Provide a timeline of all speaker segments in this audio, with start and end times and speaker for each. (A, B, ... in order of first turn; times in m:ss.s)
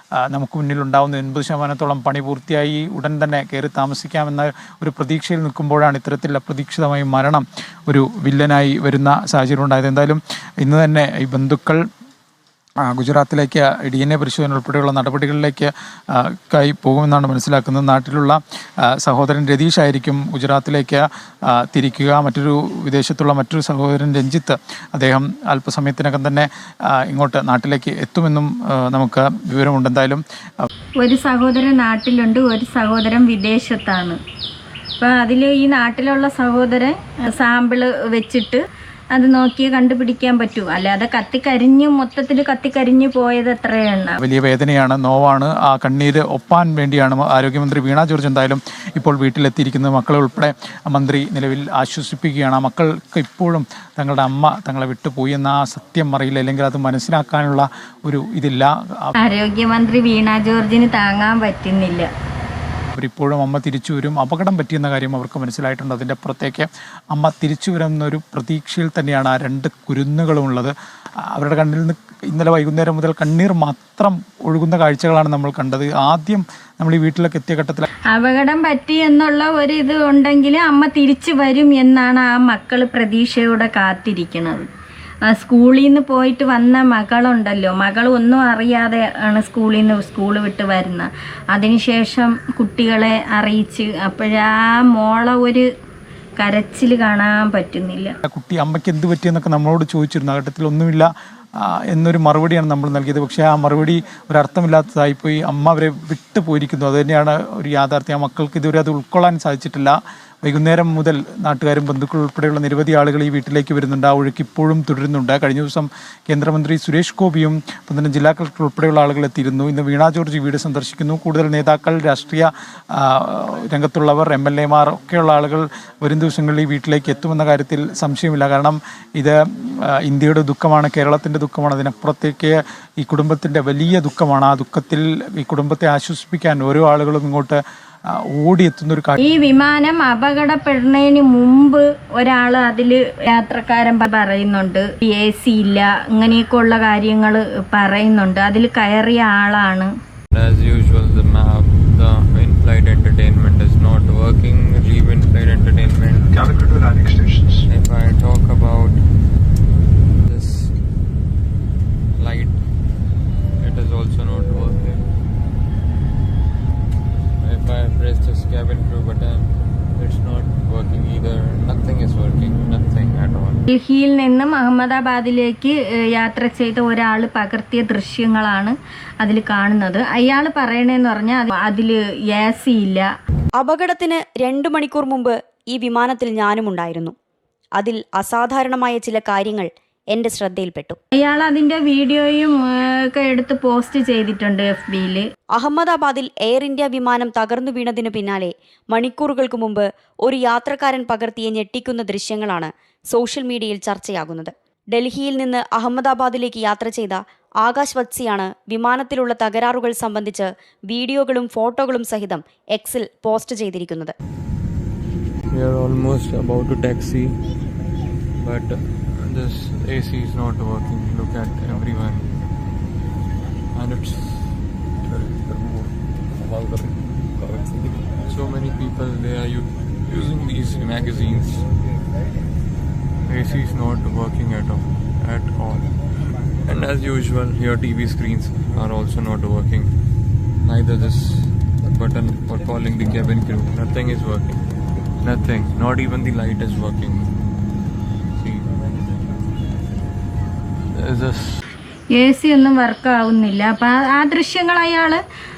0:00.3-0:11.8 A
0:12.8-0:30.7 A
0:31.0-0:34.2 B
0:35.0-0:38.6 B
0:39.1-0:44.2 B
0:44.2-0:59.1 A
0:59.2-1:02.1 B
1:02.9-1:10.7 A
1:11.3-1:17.9 A
1:18.1-1:24.7 B
1:25.2-1:35.6 B
1:36.4-1:38.1 B
1:38.2-2:17.6 A
2:18.3-2:19.2 A
2:19.2-2:29.9 B
2:30.3-2:36.7 C
2:37.7-2:39.1 C
2:40.2-2:40.8 C
2:42.2-2:42.6 C
2:43.6-2:45.1 C
2:47.4-2:53.6 C
2:53.7-3:03.1 B
3:03.6-3:07.1 D
3:07.8-3:11.0 D
3:11.1-3:15.2 B
3:15.6-3:34.1 D
3:35.5-3:37.4 C
3:38.4-3:42.4 C
3:43.7-3:51.7 C
3:53.2-3:55.9 C
3:56.5-4:00.0 C
4:00.6-4:04.6 C
4:05.2-4:07.4 C
4:08.3-4:09.0 C
4:10.9-4:11.6 C
4:12.1-4:15.2 B